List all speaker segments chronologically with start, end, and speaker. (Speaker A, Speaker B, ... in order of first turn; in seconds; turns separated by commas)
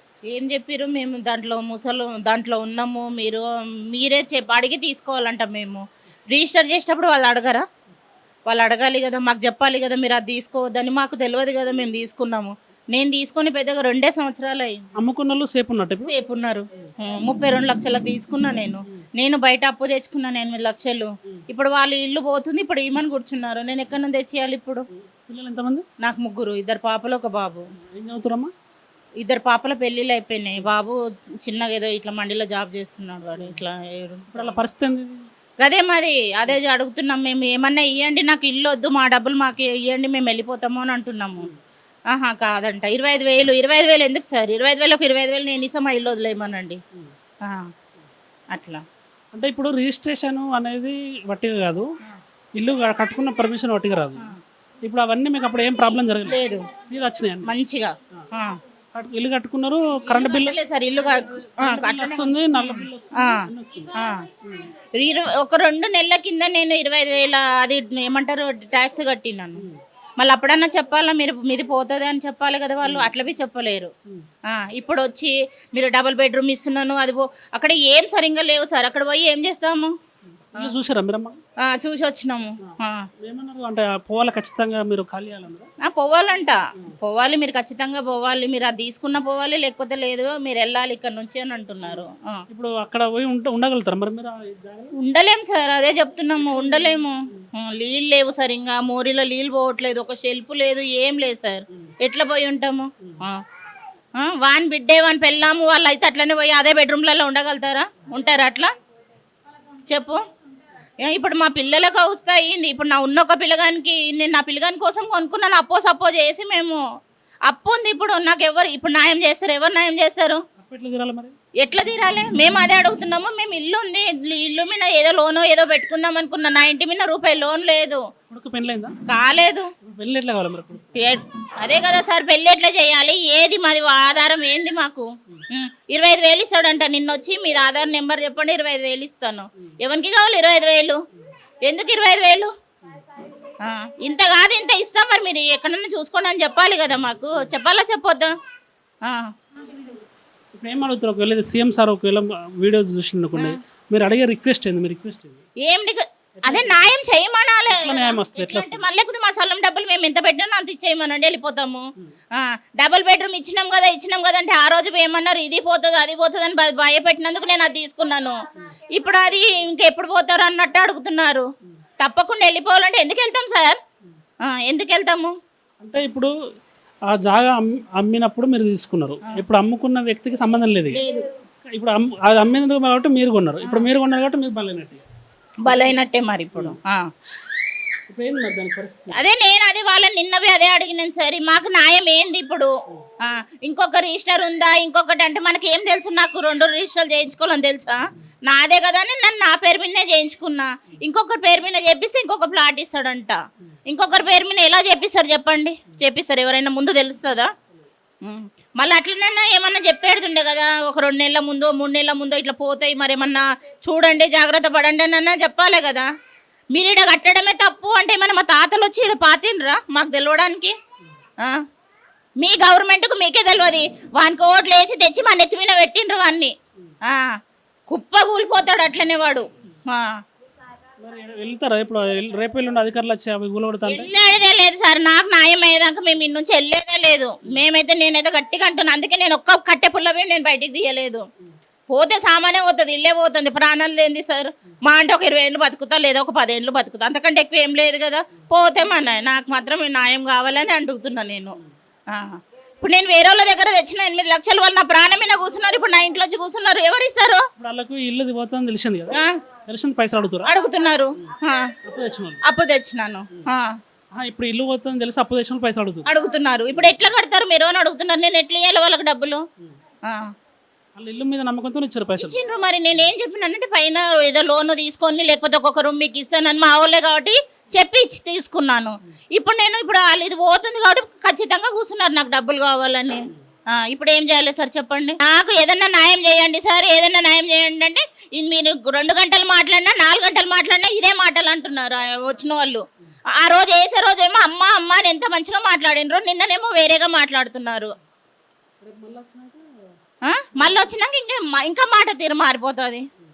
Speaker A: 0.3-7.6, Speaker A: 8.5-14.8, Speaker B: 15.0-16.1, Speaker A: 16.1-24.8, Speaker B: 24.9-25.8, Speaker A: 26.0-27.7, Speaker B: 27.9-28.5, Speaker A: 29.2-34.5, Speaker B: 34.3-35.2, Speaker A: 35.6-41.5, Speaker A: 42.1-46.8, Speaker A: 48.5-48.8, Speaker B: 49.3-51.9, Speaker B: 52.6-54.2, Speaker B: 54.8-57.5, Speaker A: 56.2-56.7, Speaker A: 57.5-58.5, Speaker B: 58.9-60.6, Speaker A: 60.1-64.2, Speaker B: 61.1-63.9, Speaker A: 65.0-69.6, Speaker A: 70.2-73.9, Speaker B: 72.8-73.1, Speaker A: 74.5-79.9, Speaker B: 80.3-81.4, Speaker A: 81.6-83.0, Speaker B: 82.6-85.7, Speaker A: 85.8-92.4, Speaker B: 92.5-94.9, Speaker A: 95.0-103.4, Speaker B: 96.4-97.0, Speaker A: 104.2-108.7, Speaker A: 109.9-110.2, Speaker A: 111.0-116.8, Speaker A: 117.5-120.4, Speaker B: 120.6-121.3, Speaker A: 121.6-128.0, Speaker B: 128.3-128.9, Speaker A: 129.1-129.7, Speaker B: 129.8-130.9, Speaker A: 131.0-141.0, Speaker A: 141.7-142.5, Speaker A: 143.6-148.3, Speaker B: 150.5-155.4, Speaker A: 155.7-161.8, Speaker B: 156.4-156.9, Speaker B: 157.7-158.8, Speaker A: 162.3-168.4, Speaker A: 168.9-171.5, Speaker A: 172.0-173.8, Speaker A: 174.4-175.3, Speaker B: 175.8-176.3, Speaker B: 177.1-181.0, Speaker A: 180.9-181.2, Speaker B: 181.7-185.0, Speaker A: 185.6-187.0, Speaker B: 188.1-189.2, Speaker A: 189.1-192.7, Speaker A: 193.2-207.5, Speaker A: 208.2-216.1, Speaker A: 216.7-220.7, Speaker A: 222.4-226.5, Speaker A: 227.9-230.1, Speaker B: 231.0-234.1, Speaker A: 233.9-241.2, Speaker A: 241.9-251.6, Speaker A: 252.1-257.4, Speaker B: 257.6-260.5, Speaker A: 260.4-261.7, Speaker B: 261.8-262.4, Speaker A: 262.4-263.7, Speaker B: 264.2-266.1, Speaker A: 266.1-269.4, Speaker B: 270.9-272.4, Speaker A: 272.2-292.8, Speaker A: 293.4-297.9, Speaker B: 298.8-299.6, Speaker A: 300.2-303.1, Speaker B: 300.6-300.8